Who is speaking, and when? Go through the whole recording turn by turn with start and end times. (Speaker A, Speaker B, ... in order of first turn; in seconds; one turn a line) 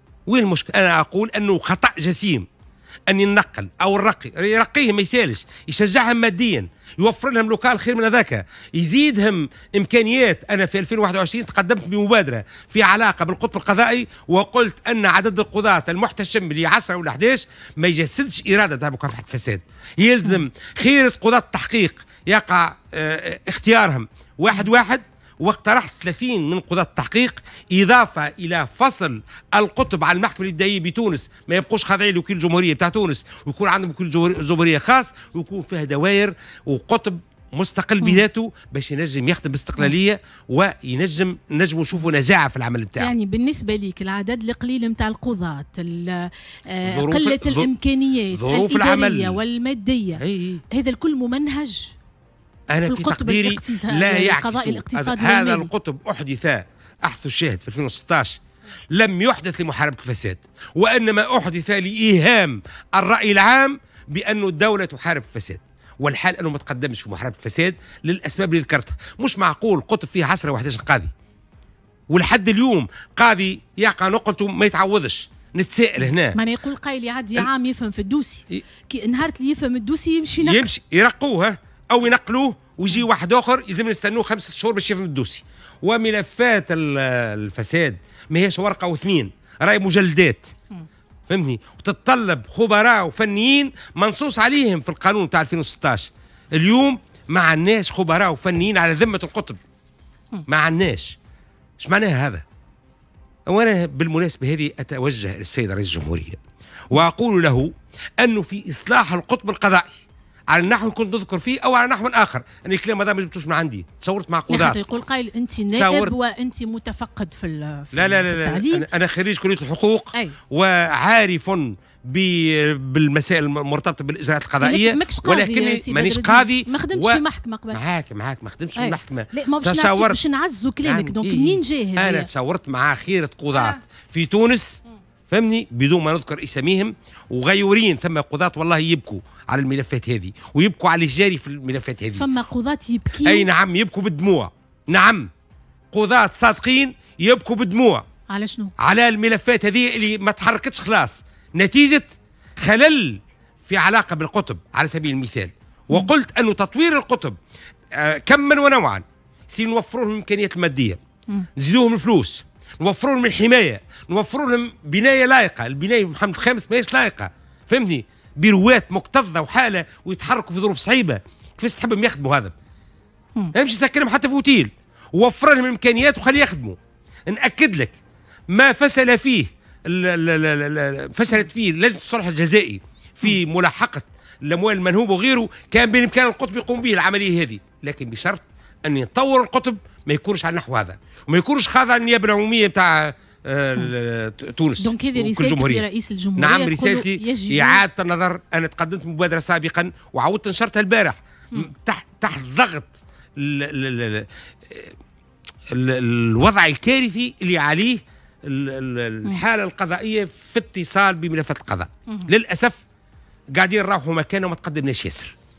Speaker A: 0.3-2.5
Speaker A: 3.1-43.1
Speaker B: 43.0-52.0
Speaker A: 46.8-47.7
Speaker A: 48.3-49.4
Speaker A: 50.2-50.6
Speaker A: 52.7-58.4
Speaker B: 52.9-55.7
Speaker A: 58.9-71.1
Speaker A: 72.1-76.4
Speaker B: 76.3-80.7
Speaker A: 80.4-90.5
Speaker A: 91.3-99.6
Speaker A: 100.5-101.2
Speaker A: 101.8-102.4
Speaker A: 103.5-106.4
Speaker A: 106.9-110.0
Speaker A: 110.5-114.8
Speaker B: 114.5-118.8
Speaker A: 115.7-116.1
Speaker A: 117.9-130.2
Speaker B: 124.6-127.8
Speaker B: 128.8-132.3
Speaker A: 130.8-142.2
Speaker B: 142.2-143.5
Speaker A: 143.2-145.3
Speaker A: 145.9-148.0
Speaker B: 148.3-148.7
Speaker A: 148.8-152.1
Speaker A: 152.6-157.4
Speaker A: 157.9-161.0
Speaker A: 161.6-172.5
Speaker A: 173.5-178.0
Speaker A: 178.5-195.8
Speaker B: 194.8-197.8
Speaker A: 196.4-204.9
Speaker A: 205.7-212.8
Speaker A: 213.6-215.3